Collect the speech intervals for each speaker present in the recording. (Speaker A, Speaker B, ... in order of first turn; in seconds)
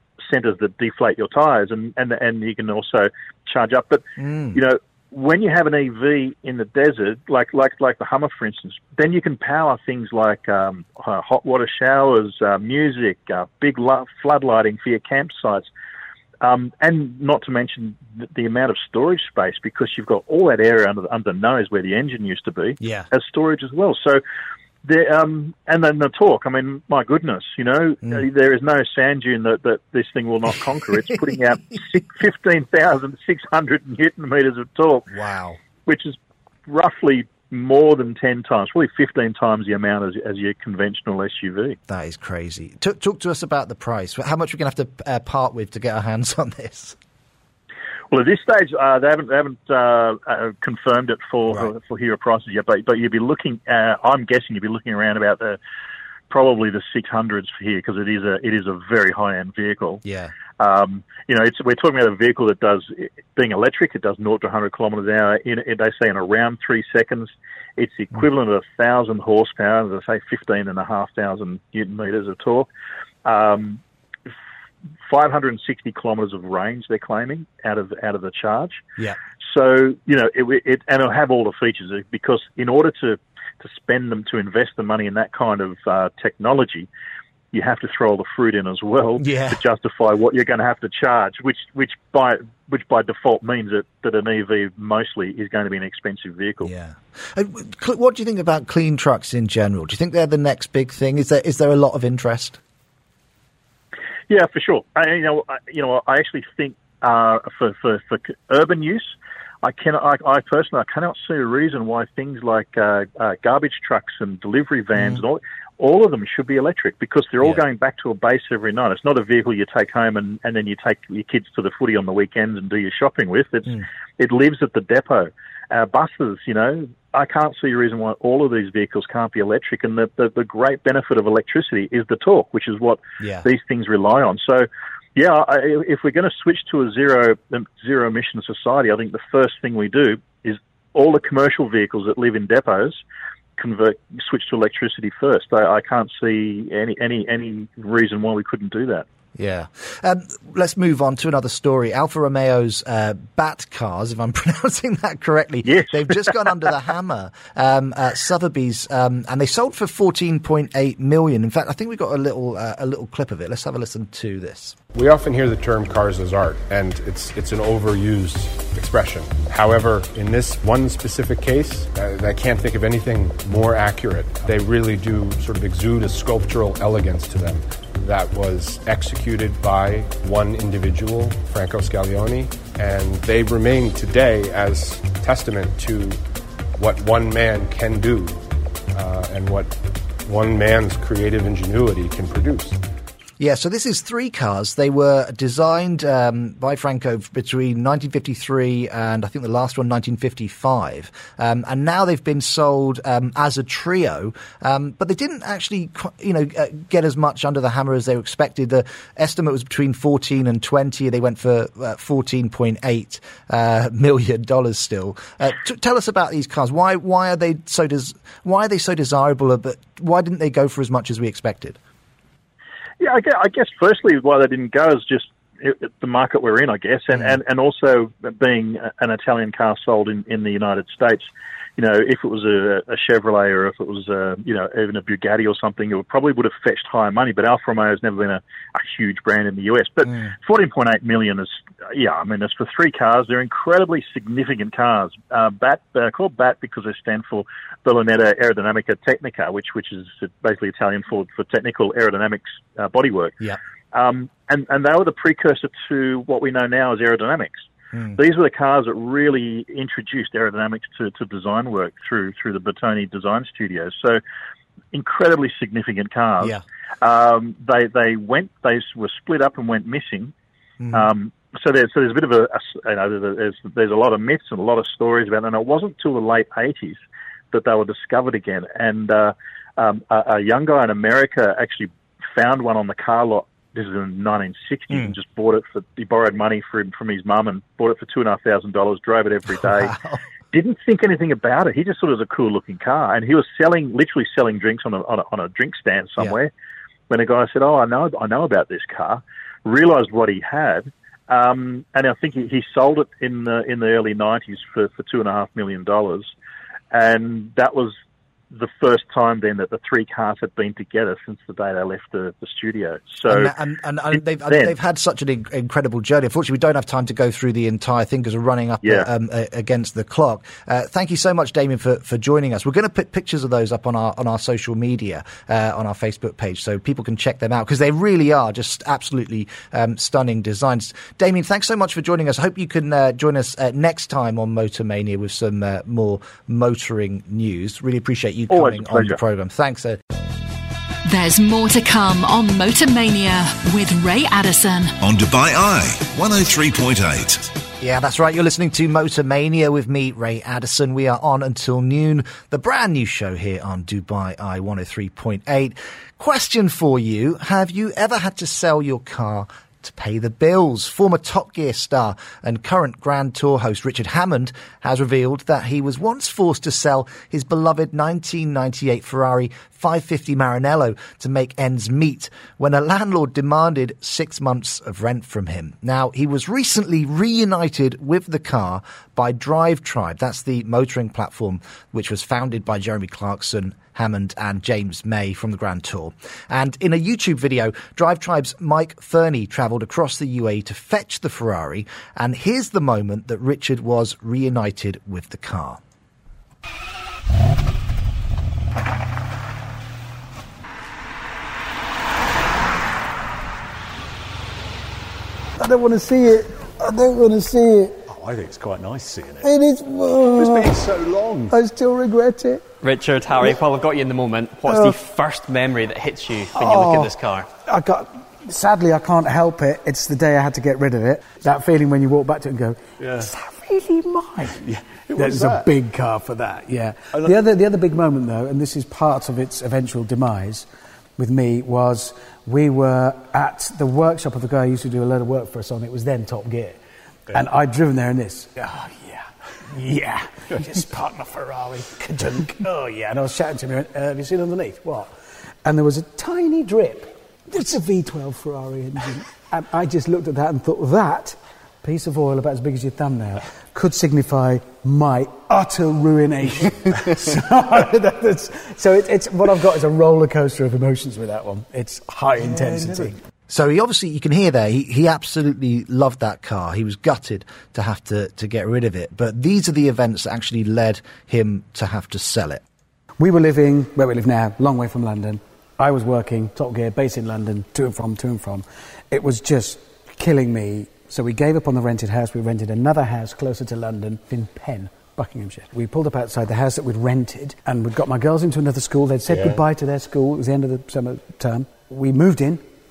Speaker A: 0.2-15.7, 16.4-24.2, 24.8-35.1, 35.9-36.1, 36.7-41.8, 48.1-55.6, 56.3-60.0, 60.6-72.7, 73.2-73.8, 75.1-78.8, 79.4-86.9, 87.5-96.7, 104.3-109.1, 109.6-143.0, 143.6-149.0, 155.6-156.3, 223.0-253.4, 253.9-257.6, 258.1-264.2, 264.9-270.3, 270.9-277.0, 277.5-289.9, 290.5-296.5, 297.1-306.3, 306.9-307.9, 308.5-313.5, 314.1-314.7, 338.5-339.2
Speaker B: 4.2-4.6, 22.8-23.1, 35.1-35.6, 41.9-47.0, 60.0-60.3, 89.2-89.6, 96.6-102.6, 133.2-133.5, 149.3-164.8, 193.4-221.8, 270.8-271.1, 289.5-290.2, 313.2-340.0, 347.8-395.8, 463.5-472.6
Speaker C: 164.9-186.2, 186.7-192.8
Speaker D: 341.1-344.9
Speaker E: 345.0-347.4
Speaker F: 405.6-408.0, 409.4-410.9, 411.5-412.6, 414.6-415.0, 416.6-445.1, 445.6-463.2, 473.2-492.7
Speaker G: 408.1-409.5, 410.3-411.6, 423.0-423.3, 424.7-425.7, 427.1-427.4
Speaker H: 412.8-417.5